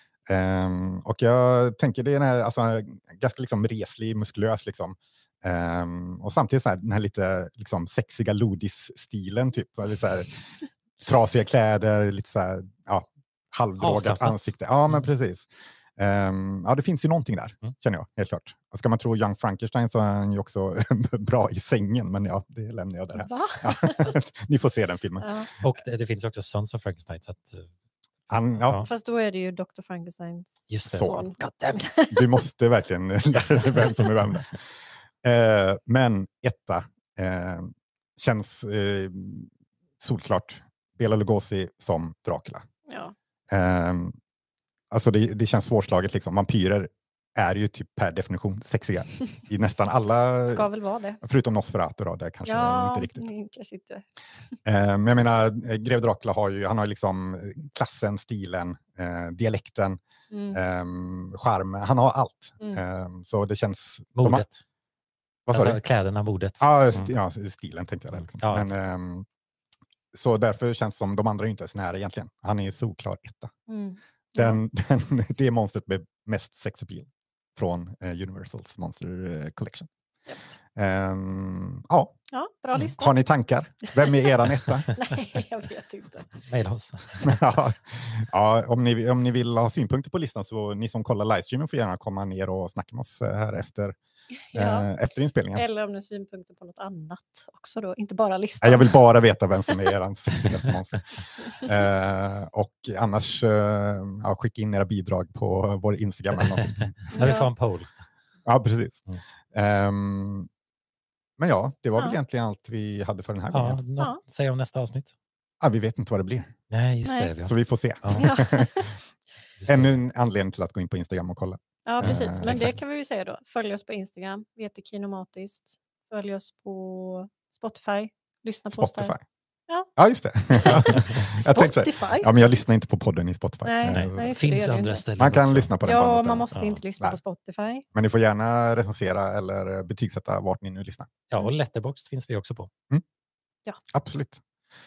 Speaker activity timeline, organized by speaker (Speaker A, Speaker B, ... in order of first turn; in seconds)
Speaker A: 0.3-10.4, 11.0-25.7, 28.3-28.8, 30.9-31.2, 32.1-34.6, 35.2-42.6, 43.5-44.1, 44.9-50.7, 51.2-53.2, 54.6-60.0, 60.5-64.4, 65.5-65.8, 66.6-69.3, 70.1-73.5, 74.3-79.9, 80.7-82.2, 82.8-84.9, 87.2-94.0, 94.5-95.6, 98.6-107.0, 108.4-110.5, 111.4-113.8, 115.6-116.6, 117.4-118.9, 119.7-122.7, 128.7-129.2, 129.9-134.3, 135.2-137.2, 137.9-141.1, 143.9-144.4
Speaker B: 13.8-14.3, 25.6-27.7, 28.6-28.9, 30.7-32.0, 64.2-64.6, 65.5-67.1, 68.1-68.7, 86.5-87.4, 107.0-107.9, 113.5-115.1, 116.7-118.3, 119.6-119.9, 122.0-122.8, 130.7-131.0, 133.9-135.7, 136.5-136.8, 141.3-142.7
Speaker C: 23.1-24.2, 25.2-25.5, 28.7-32.4, 33.7-34.0, 42.9-43.1, 50.5-51.2, 52.5-54.5, 60.3-60.6, 73.7-74.6, 82.3-83.2, 83.9-84.3, 84.9-86.3, 94.5-94.9, 95.5-99.0, 107.1-107.5, 117.0-117.3, 118.2-118.9, 121.8-129.1, 130.5-132.3, 133.6-135.0, 135.8-137.8